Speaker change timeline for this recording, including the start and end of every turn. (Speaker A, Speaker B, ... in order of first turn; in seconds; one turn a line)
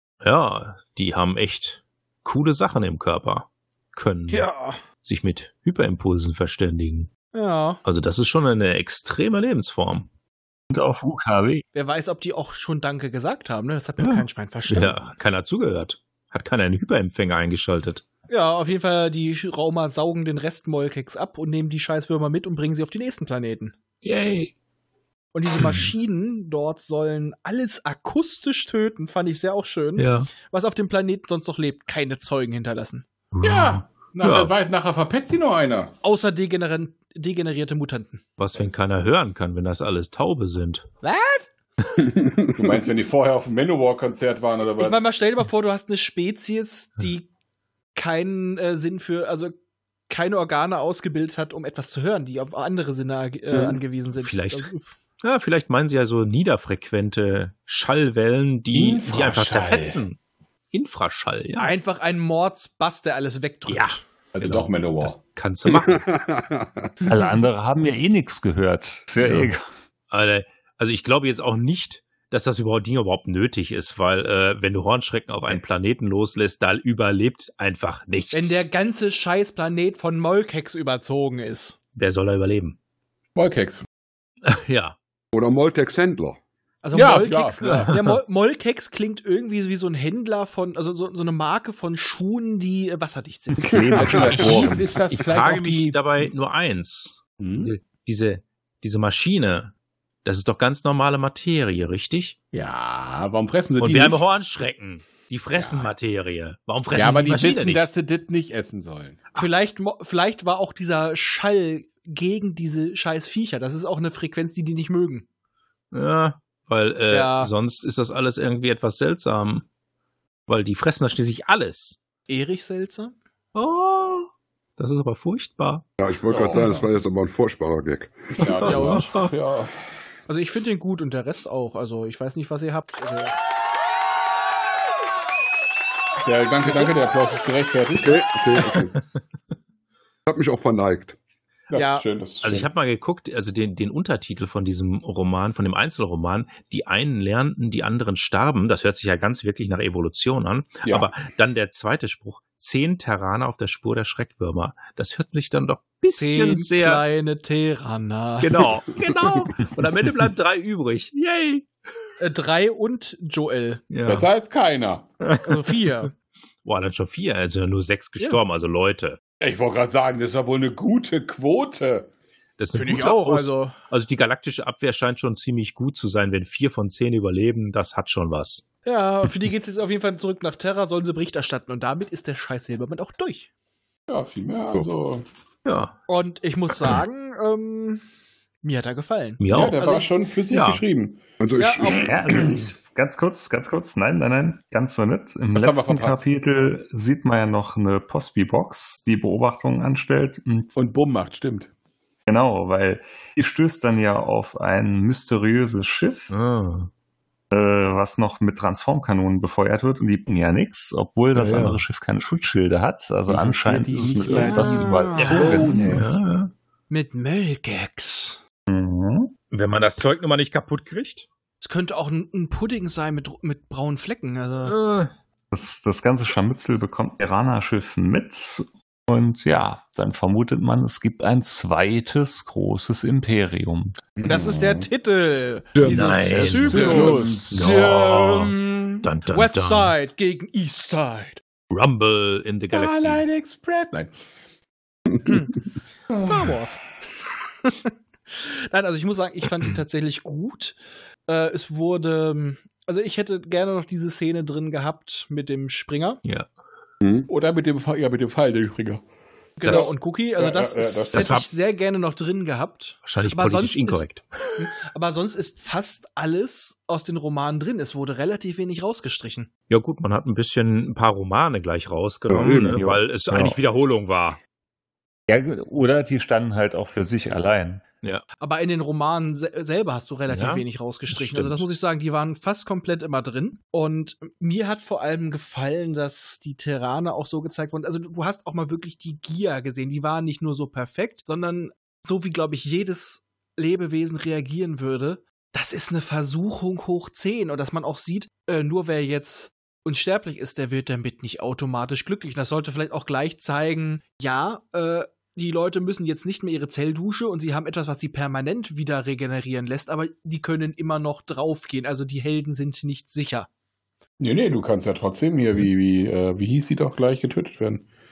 Speaker A: 0.2-4.5
Speaker B: 4.3-4.8
Speaker A: 5.0-7.1
Speaker B: 7.3-7.8
Speaker A: 7.8-10.1
Speaker C: 10.7-11.6
Speaker B: 11.7-15.0
Speaker A: 14.0-18.1
Speaker B: 18.3-23.7
Speaker A: 24.0-24.5
Speaker B: 25.3-33.0
Speaker A: 25.6-25.9
Speaker A: 30.0-30.3
Speaker A: 33.3-34.5
Speaker D: 33.4-35.9
Speaker B: 36.0-38.2
Speaker A: 38.4-40.9
Speaker B: 41.0-41.5
Speaker E: 42.0-42.8
Speaker D: 42.5-45.0
Speaker B: 44.8-47.2
Speaker B: 47.9-49.5
Speaker B: 50.1-54.8
Speaker A: 53.5-54.7
Speaker A: 55.2-60.2
Speaker D: 58.7-60.0
Speaker A: 60.7-61.7
Speaker B: 61.6-64.0
Speaker A: 63.7-66.1
Speaker D: 64.3-65.2
Speaker E: 65.7-66.9
Speaker C: 67.0-69.7
Speaker A: 69.2-69.5
Speaker A: 70.1-78.7
Speaker B: 78.3-81.8
Speaker A: 82.0-82.8
Speaker D: 83.3-83.8
Speaker A: 84.4-85.0
Speaker E: 85.3-86.4
Speaker B: 86.8-93.7
Speaker D: 86.9-87.9
Speaker A: 87.6-88.2
Speaker C: 93.6-94.8
Speaker E: 93.7-94.8
Speaker D: 94.0-96.0
Speaker A: 95.1-99.7
Speaker D: 97.4-97.7
Speaker A: 100.2-102.3
Speaker D: 102.5-104.2
Speaker A: 103.8-107.9
Speaker D: 105.5-105.9
Speaker D: 106.9-109.2
Speaker B: 109.3-115.2
Speaker A: 115.9-119.7
Speaker B: 117.1-117.5
Speaker A: 120.5-122.0
Speaker B: 122.3-123.1
Speaker A: 123.5-125.8
Speaker E: 126.0-128.9
Speaker D: 126.3-126.8
Speaker D: 128.4-129.7
Speaker A: 128.6-129.3
Speaker B: 128.7-129.1
Speaker B: 130.3-133.3
Speaker D: 136.2-138.3
Speaker E: 137.9-138.9
Speaker E: 140.2-141.2
Speaker D: 141.7-142.7
Speaker B: 141.7-142.0
Speaker A: 142.4-157.0
Speaker B: 156.2-158.7
Speaker A: 158.4-161.7
Speaker B: 162.2-163.8
Speaker A: 163.9-164.3
Speaker D: 164.1-165.1
Speaker A: 165.2-165.6
Speaker B: 165.4-166.1
Speaker A: 166.6-169.2
Speaker D: 169.4-172.1
Speaker A: 172.6-178.7
Speaker B: 172.7-173.7
Speaker B: 178.8-183.5
Speaker D: 184.1-185.2
Speaker A: 185.6-186.0
Speaker B: 186.1-188.0
Speaker B: 188.6-190.1
Speaker A: 189.4-190.8
Speaker D: 189.5-191.2
Speaker E: 191.4-192.3
Speaker B: 191.6-192.0
Speaker D: 191.8-192.6
Speaker C: 192.0-200.7
Speaker D: 195.5-196.3
Speaker D: 200.7-201.7
Speaker C: 202.3-206.3
Speaker A: 206.3-206.9
Speaker C: 207.5-216.1
Speaker A: 211.3-211.8
Speaker D: 213.3-216.2
Speaker B: 214.3-215.7
Speaker A: 215.2-216.5
Speaker B: 216.9-218.4
Speaker C: 218.7-219.3
Speaker A: 219.5-221.3
Speaker B: 221.6-224.8
Speaker A: 224.6-225.1
Speaker C: 225.5-234.0
Speaker D: 234.2-234.9
Speaker B: 234.2-241.4
Speaker A: 235.8-239.9
Speaker C: 235.8-238.0
Speaker D: 236.7-237.9
Speaker A: 241.7-243.2
Speaker D: 242.7-244.1
Speaker B: 245.2-245.5
Speaker D: 246.1-246.5
Speaker B: 246.2-246.8
Speaker B: 247.6-250.8
Speaker B: 251.3-256.2
Speaker E: 257.0-257.3
Speaker D: 257.3-259.0
Speaker B: 259.6-264.1
Speaker D: 259.6-261.4
Speaker A: 261.1-261.5
Speaker A: 263.0-264.5
Speaker B: 264.6-269.5
Speaker A: 269.7-274.4
Speaker E: 272.3-272.8
Speaker C: 272.5-273.6
Speaker C: 275.3-277.8
Speaker B: 278.4-313.5
Speaker A: 280.3-281.6
Speaker D: 314.2-317.9